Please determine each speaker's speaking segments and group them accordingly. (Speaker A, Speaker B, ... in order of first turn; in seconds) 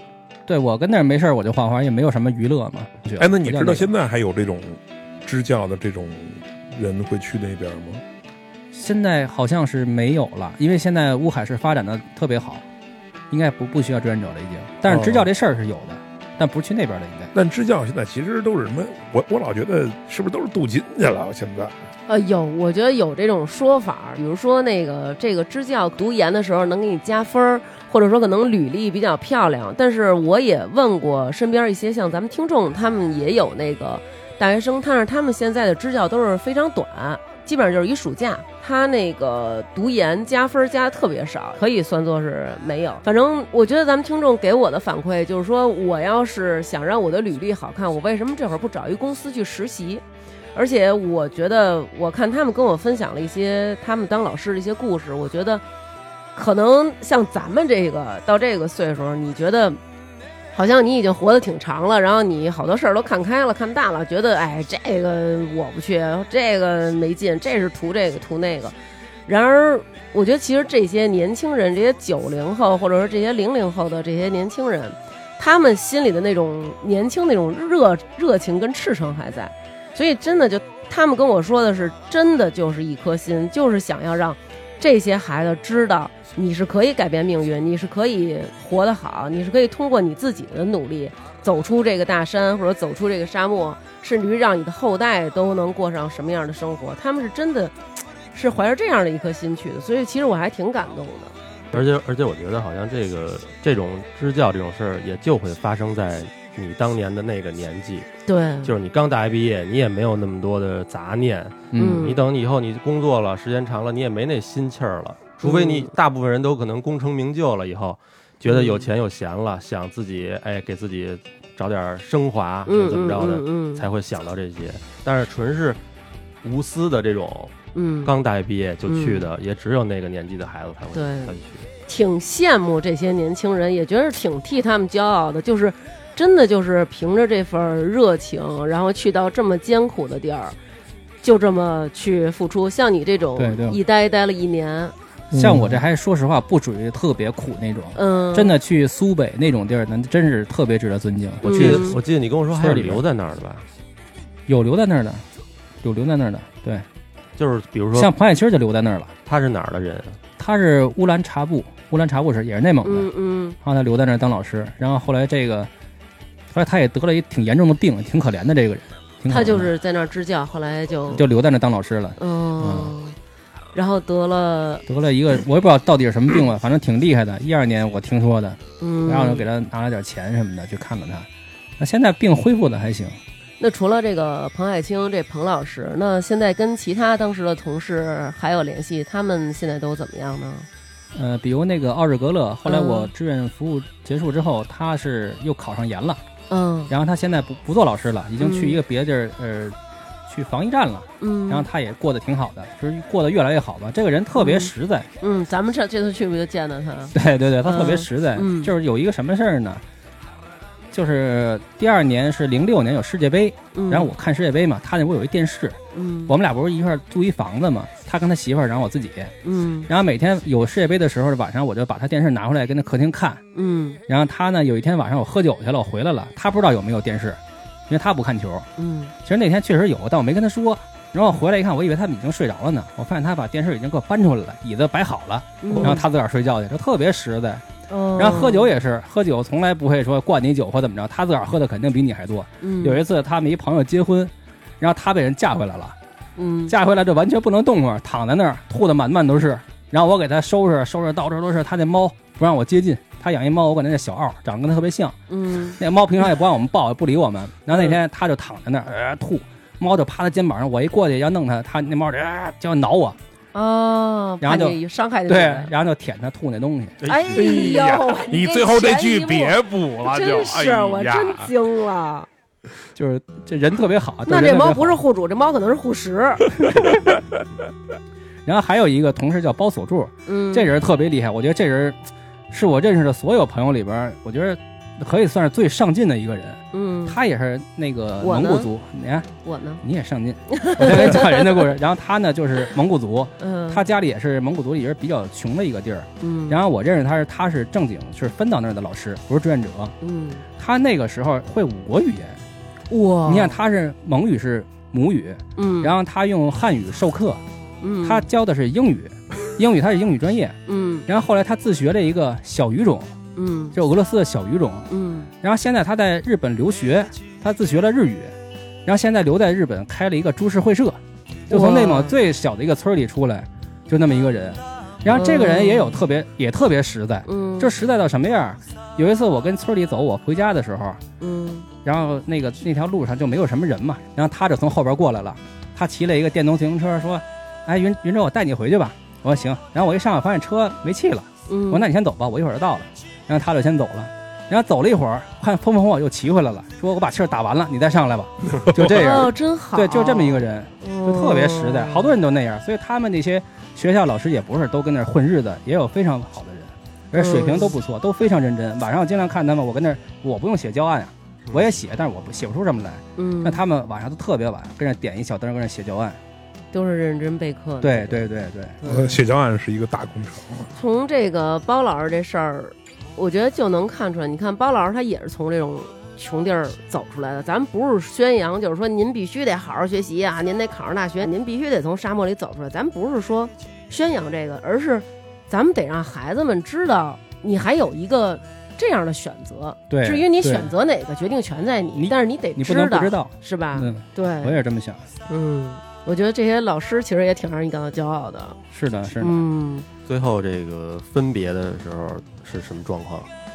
Speaker A: 0.5-3.9, 8.7-12.6, 13.3-17.3, 111.7-112.1, 143.4-143.8, 145.3-152.0, 152.6-153.0, 154.5-155.2, 155.8-156.8, 157.9-159.1, 160.4-163.1, 163.6-165.7, 166.5-169.7, 171.1-172.9, 174.9-181.3, 181.8-183.2, 191.2-196.2, 196.9-199.8, 200.3-205.1, 207.2-209.8, 210.9-219.3, 219.9-223.4, 224.1-228.7, 229.2-237.6, 238.2-245.9, 246.7-255.2, 255.8-263.2, 264.4-267.0, 273.0-275.0, 278.5-282.0, 282.5-289.3, 289.8-299.9, 300.6-302.4, 303.3-307.4, 308.0-313.1, 313.7-314.9, 315.4-318.4, 318.9-321.0, 321.5-331.0, 331.8-366.2, 367.8-368.8, 389.9-390.7, 392.0-395.0, 398.7-399.4
Speaker B: 3.2-8.0, 14.9-15.3, 17.3-21.7, 145.3-145.8, 267.3-271.5, 368.8-370.7
Speaker C: 22.1-55.6, 56.4-59.8, 60.5-68.7, 69.3-97.7, 98.3-101.3, 108.3-108.7, 111.8-112.2, 115.4-115.9, 118.5-118.9, 122.7-123.9, 127.8-128.1, 128.9-129.3, 130.9-131.4, 131.9-140.6, 141.2-144.9, 147.9-148.6, 151.4-152.0, 162.8-163.6, 169.3-171.2, 172.2-173.2, 173.7-174.8, 178.8-179.5, 183.6-190.7, 192.7-193.1, 196.5-196.9, 198.4-198.8, 201.2-201.7, 204.4-208.7, 213.7-214.1, 215.9-216.3, 219.4-219.9, 223.5-224.0, 228.8-229.1, 235.6-236.0, 237.9-238.7, 242.6-243.0, 246.4-246.7, 255.3-255.8, 257.7-258.0, 263.5-265.7, 267.1-272.3, 274.3-276.6, 280.3-280.7, 286.7-287.2, 288.2-288.7, 289.4-289.8, 290.5-291.7, 293.4-293.8, 296.2-296.6, 300.0-300.4, 302.9-303.6, 305.6-305.9, 307.8-308.3, 310.7-311.1, 313.4-313.8, 314.9-315.3, 321.5-322.2, 325.1-326.0, 327.3-327.7, 331.2-331.7, 341.5-341.9, 348.8-352.2, 357.1-357.8, 363.2-363.6, 366.7-368.3, 368.8-369.2, 370.7-394.6, 395.3-398.6, 399.2-399.9
Speaker D: 101.7-108.1, 108.6-125.8, 126.4-131.7, 151.4-153.7, 157.4-158.1, 159.3-160.2, 267.0-267.8, 400.1-403.3